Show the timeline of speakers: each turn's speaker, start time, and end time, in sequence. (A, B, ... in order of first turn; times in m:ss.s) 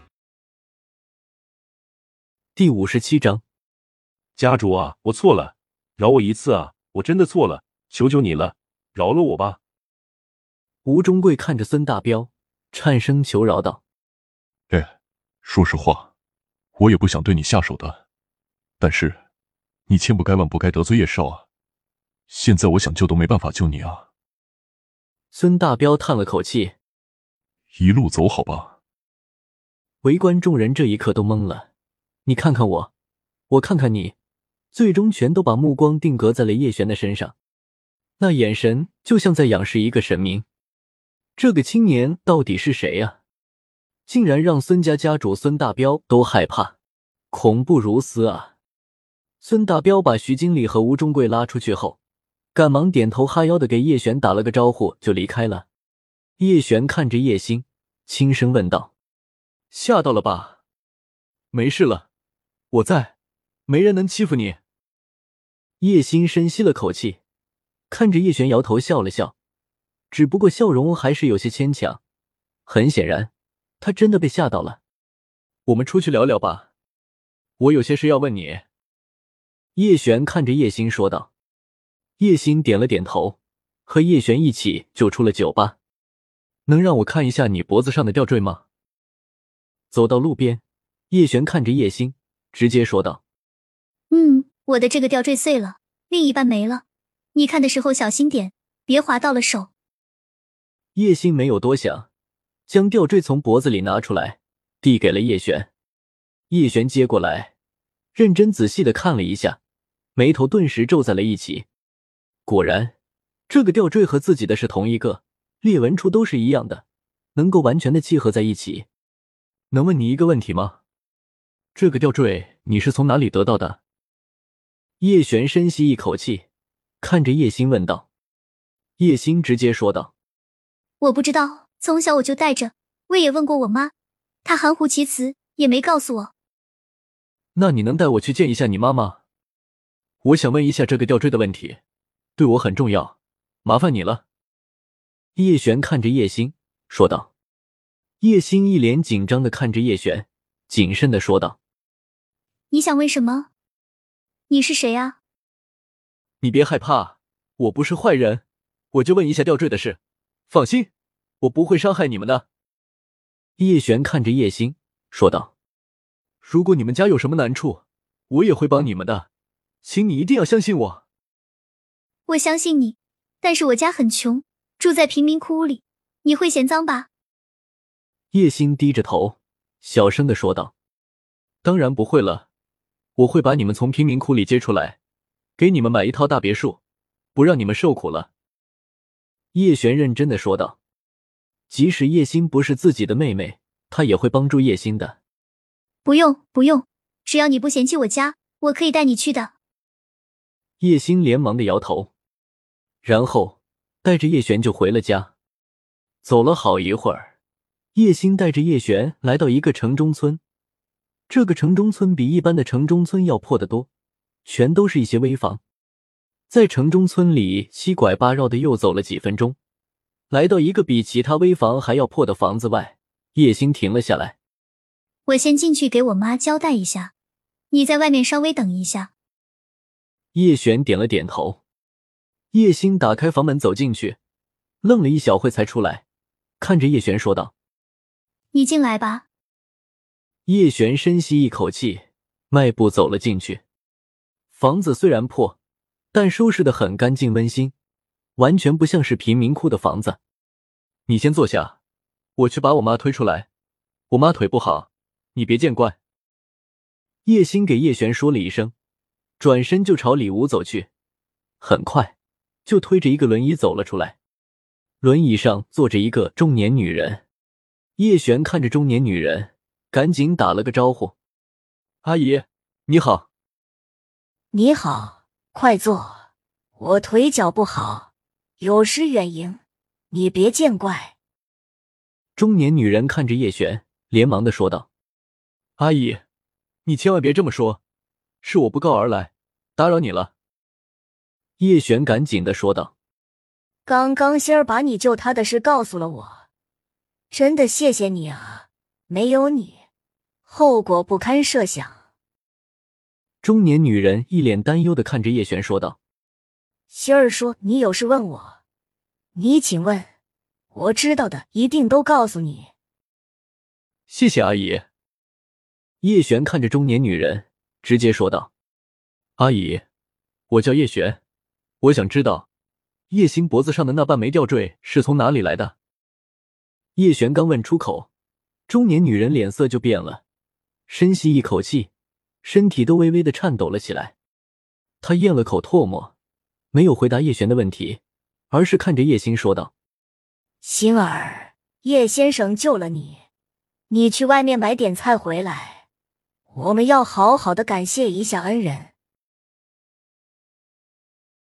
0:02.6-0:03.4 A
0:04.4-0:09.6 B
0:10.8-0:13.8 A
0:15.4-0:16.1 C
0:16.8-0:18.0 C
0:18.8-0:19.2 C
0:19.9-0:21.4 C
0:22.3-0:24.1 C
0:25.3-0:26.7 A
0:27.7-0:28.8 C
0:30.0-0:31.7 A
0:32.2-0:32.9 A
0:33.5-0:34.1 A
0:34.7-0:37.3 A
0:38.2-0:40.4 A
0:41.4-0:43.2 A
0:44.1-0:46.8 A
0:47.3-0:48.5 A
0:49.4-0:52.0 A
0:52.5-0:55.6 A
0:56.4-0:58.9 A
0:59.7-1:00.6 A
1:01.5-1:02.1 A
1:02.7-1:03.1 A
1:03.7-1:04.6 A
1:05.8-1:07.2 A
1:07.9-1:09.3 A
1:10.1-1:12.0 A
1:12.6-1:14.8 A
1:15.7-1:16.7 A
1:17.6-1:18.6 A
1:19.8-1:21.3 A
1:22.2-1:23.4 A
1:23.9-1:25.8 A
1:26.7-1:28.6 A
1:29.9-1:33.2 A
1:34.1-1:36.8 D
1:37.3-1:39.7 D
1:40.9-1:42.1 A
1:42.7-1:45.7 A
1:46.5-1:47.5 A
1:48.1-1:49.6 A
1:50.2-1:51.7 A
1:52.5-1:52.9 A
1:53.5-1:56.8 A
1:57.3-1:58.8 A
1:59.7-2:00.8 A
2:01.7-2:03.8 A
2:05.0-2:06.4 A
2:07.0-2:08.1 A
2:09.0-2:10.1 A
2:11.0-2:13.9 D
2:14.4-2:16.3 D
2:17.5-2:19.2 A
2:20.2-2:21.8 A
2:22.4-2:24.2 A
2:25.4-2:27.3 A
2:28.2-2:31.6 A
2:32.7-2:33.5 D
2:34.5-2:35.2 D
2:36.4-2:40.0 A
2:40.5-2:40.9 A
2:41.4-2:42.4 A
2:43.6-2:45.5 A
2:46.4-2:49.3 A
2:49.8-2:51.0 A
2:52.3-2:57.1 D
2:58.3-3:00.7 A
3:01.6-3:02.5 A
3:03.2-3:05.0 A
3:05.6-3:06.8 A
3:07.3-3:08.3 A
3:09.5-3:10.8 A
3:11.7-3:15.2 A
3:16.0-3:19.5 D
3:20.8-3:22.1 A
3:23.0-3:25.3 A
3:26.2-3:27.3 A
3:27.9-3:30.4 A
3:31.3-3:33.9 A
3:34.4-3:35.6 A
3:36.5-3:39.6 A
3:40.3-3:44.4 A
3:45.3-3:47.1 D
3:47.7-3:49.1 D
3:50.3-3:51.6 A
3:52.5-3:54.2 A
3:54.8-3:56.0 A
3:56.6-3:57.5 A
3:58.5-3:59.2 D
4:00.5-4:03.6 A
4:04.5-4:05.6 A
4:06.1-4:07.7 A
4:08.4-4:10.2 A
4:11.1-4:11.8 A
4:12.4-4:13.5 A
4:14.1-4:16.0 A
4:17.2-4:18.7 A
4:19.4-4:20.9 A
4:21.6-4:22.1 A
4:22.6-4:24.2 A
4:25.0-4:27.2 A
4:28.0-4:31.1 A
4:32.0-4:33.3 A
4:34.5-4:36.2 E
4:36.8-4:38.1 E
4:38.6-4:39.6 E
4:40.1-4:41.1 E
4:42.4-4:44.9 A
4:45.8-4:46.2 A
4:46.8-4:47.8 A
4:48.4-4:50.3 A
4:51.6-4:52.9 A
4:53.8-4:56.4 E
4:57.3-4:59.8 E
5:00.5-5:02.0 E
5:03.4-5:06.0 A
5:06.9-5:08.6 E
5:09.3-5:10.1 E
5:10.7-5:12.7 E
5:14.1-5:14.8 A
5:16.0-5:18.5 A
5:19.4-5:19.8 A
5:20.5-5:21.2 A
5:21.8-5:22.5 A
5:23.1-5:25.7 A
5:27.0-5:28.1 A
5:28.7-5:30.2 A
5:30.9-5:31.9 A
5:32.4-5:34.1 A
5:35.0-5:36.1 A
5:36.7-5:38.0 A
5:38.5-5:39.7 A
5:40.6-5:43.2 E
5:43.9-5:45.8 E
5:46.5-5:48.9 E